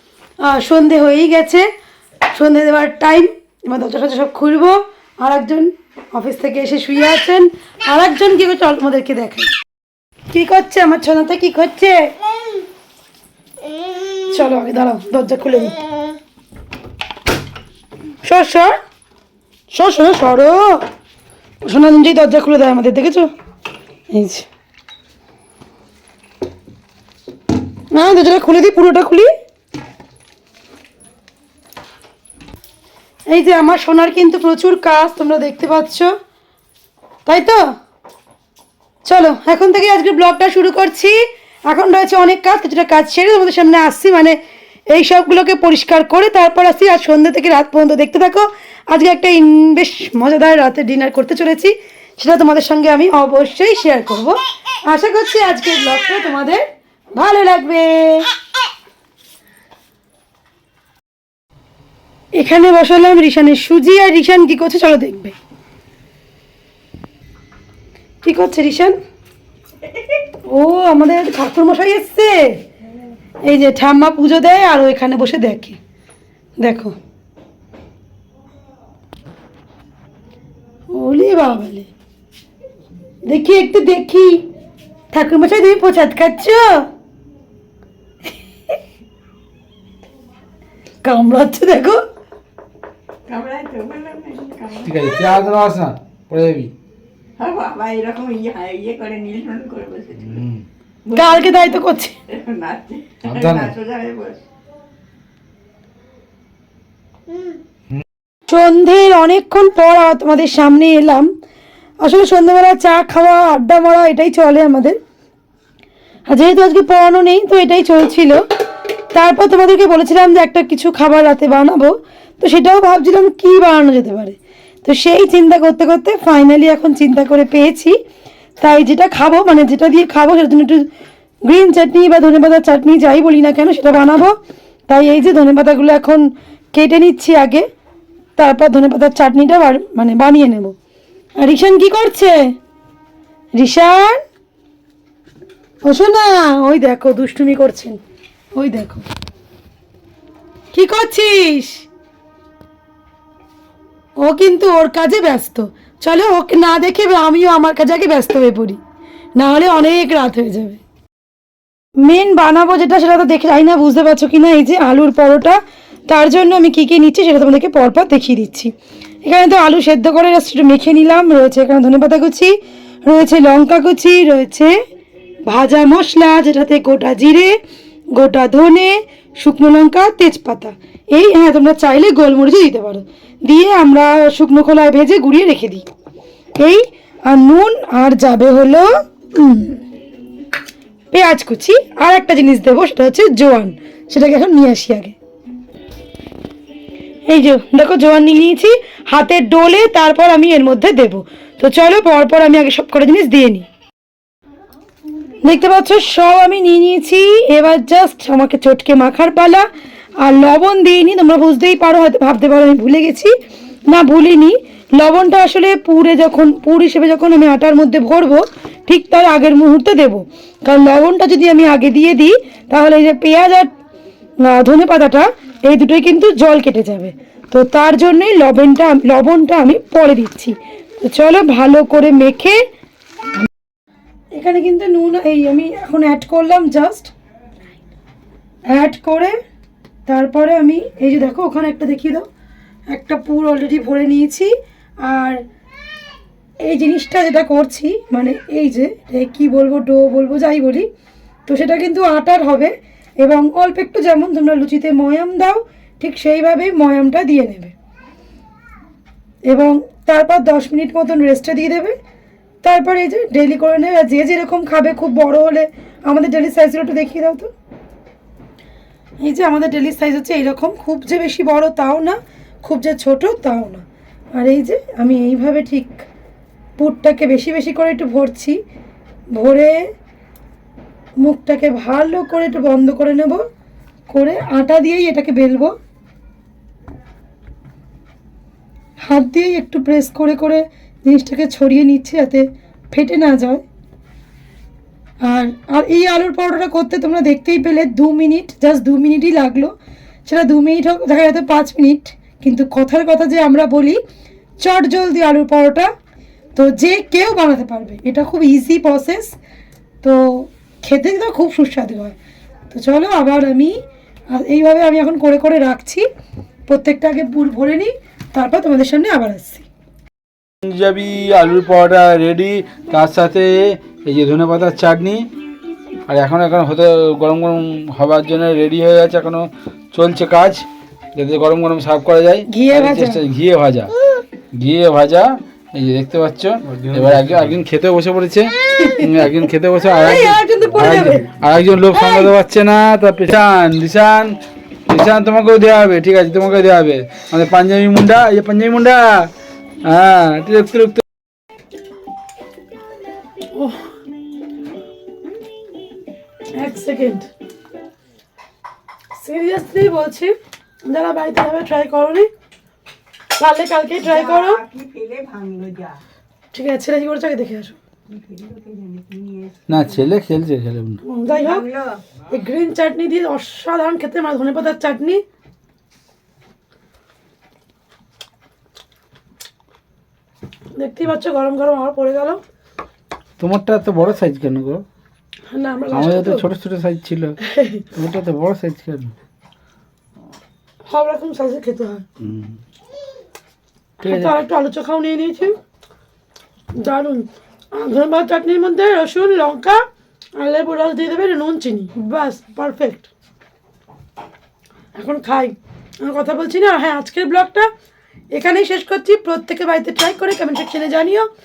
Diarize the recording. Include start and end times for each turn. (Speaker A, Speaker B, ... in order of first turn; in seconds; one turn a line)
Speaker A: 0.4-1.7
Speaker A: 2.3-9.5
Speaker A: 10.3-12.1
Speaker A: 14.3-15.8
Speaker A: 18.2-18.8
Speaker A: 19.7-20.8
Speaker A: 21.6-23.3
Speaker A: 24.1-24.4
Speaker A: 27.9-29.3
Speaker A: 33.3-36.1
Speaker A: 37.2-37.7
Speaker A: 39.0-44.4
Speaker A: 44.9-58.3
Speaker A: 62.3-65.3
Speaker A: 68.2-69.0
Speaker A: 70.4-72.6
Speaker A: 73.4-75.8
Speaker A: 76.6-76.9
Speaker A: 80.9-81.9
Speaker A: 83.2-84.4
Speaker A: 85.1-86.8
Speaker A: 91.0-92.0
Speaker B: 93.3-95.0
Speaker C: 94.8-96.7
Speaker B: 97.4-100.4
Speaker C: 100.2-100.6
Speaker B: 101.1-104.4
Speaker A: 101.1-102.1
Speaker C: 103.2-103.7
Speaker A: 108.5-111.3
Speaker A: 112.0-115.0
Speaker A: 116.3-118.4
Speaker A: 119.1-128.0
Speaker A: 128.6-130.9
Speaker A: 131.4-134.3
Speaker A: 134.9-137.7
Speaker A: 138.3-140.7
Speaker A: 141.4-142.5
Speaker A: 143.6-144.2
Speaker A: 145.8-148.0
Speaker A: 148.5-149.0
Speaker A: 150.7-151.9
Speaker A: 154.2-158.8
Speaker A: 159.3-160.8
Speaker A: 162.0-168.7
Speaker A: 169.2-174.7
Speaker A: 175.4-177.6
Speaker A: 178.1-185.8
Speaker A: 186.6-189.8
Speaker A: 191.1-195.1
Speaker A: 197.3-203.7
Speaker A: 205.4-209.7
Speaker A: 210.2-213.3
Speaker A: 213.9-223.7
Speaker A: 224.4-232.6
Speaker A: 234.3-237.1
Speaker A: 238.7-239.3
Speaker A: 240.1-242.3
Speaker A: 242.9-245.4
Speaker A: 246.6-250.9
Speaker A: 251.5-257.7
Speaker A: 259.4-261.9
Speaker A: 262.6-267.5
Speaker A: 269.2-276.0
Speaker A: 276.8-278.6
Speaker A: 279.3-279.8
Speaker A: 281.2-283.4
Speaker A: 284.1-285.7
Speaker A: 289.0-293.6
Speaker A: 295.2-299.7
Speaker A: 300.2-304.0
Speaker A: 304.6-305.9
Speaker A: 306.5-309.4
Speaker A: 310.0-312.1
Speaker A: 312.7-313.8
Speaker A: 314.3-316.1
Speaker A: 316.7-319.7
Speaker C: 320.6-325.2
Speaker C: 326.1-333.9
Speaker A: 332.5-333.2
Speaker C: 334.5-344.4
Speaker A: 338.8-339.1
Speaker A: 339.9-341.3
Speaker A: 341.9-342.3
Speaker C: 344.9-349.3
Speaker C: 349.8-351.0
Speaker A: 353.5-353.8
Speaker A: 356.5-357.3
Speaker A: 359.1-362.3
Speaker A: 363.4-364.6
Speaker B: 364.0-366.0
Speaker A: 366.5-367.8
Speaker B: 368.1-369.8
Speaker C: 369.7-371.0
Speaker A: 371.0-371.7
Speaker B: 371.4-372.0
Speaker A: 372.3-375.2
Speaker A: 380.8-382.4
Speaker C: 383.4-384.8
Speaker A: 385.5-386.4
Speaker C: 385.9-387.4
Speaker A: 387.4-387.8
Speaker C: 387.9-389.1
Speaker A: 390.9-392.0
Speaker C: 392.2-392.6
Speaker A: 394.0-395.6
Speaker C: 394.0-394.3
Speaker A: 396.7-399.8
Speaker A: 400.4-403.1
Speaker A: 404.9-407.7
Speaker A: 408.3-411.3